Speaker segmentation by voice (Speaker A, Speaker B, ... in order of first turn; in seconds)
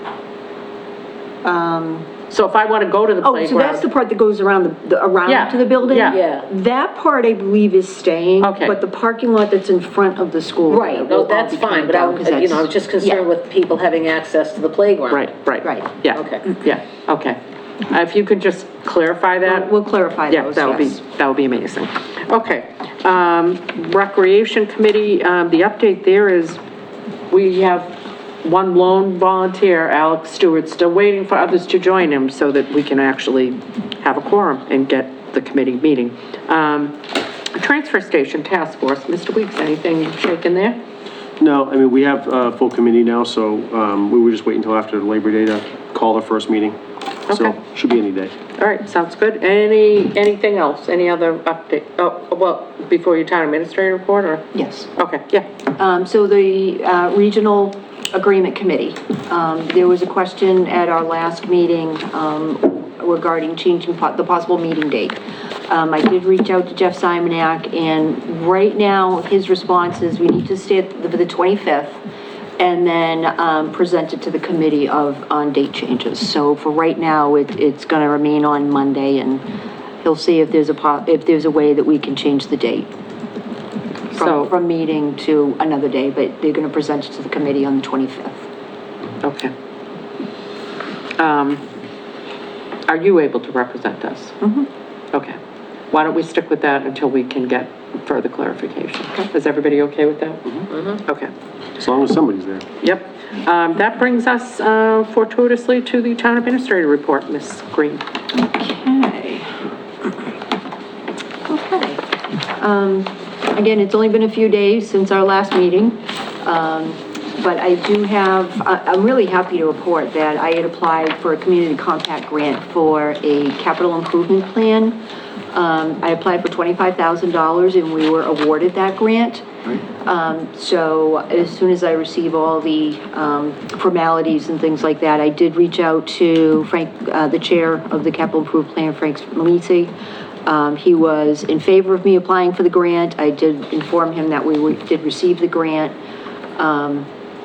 Speaker A: 1.4-2.1, 3.2-13.3, 15.6-15.9, 19.4-21.0, 54.5-54.9, 55.8-72.0, 72.6-79.4, 80.0-82.9, 84.1-88.4, 94.4-94.7, 108.3-109.7, 111.5-125.0, 125.5-139.9, 140.4-145.9, 146.6-147.1
Speaker B: 2.3-3.9, 5.3-6.2, 8.4-8.8, 15.1-19.7, 20.3-26.6, 27.3-40.8, 47.3-47.6, 48.6-55.5, 84.1-84.5, 89.2-89.5, 91.2-91.6, 92.9-94.4, 95.1-95.4, 95.9-100.4, 101.0-101.3, 102.8-108.0
Speaker C: 5.9-6.5, 10.7-15.3, 16.1-16.5, 100.7-101.0
Speaker D: 41.4-46.8, 47.3-48.3, 101.8-102.6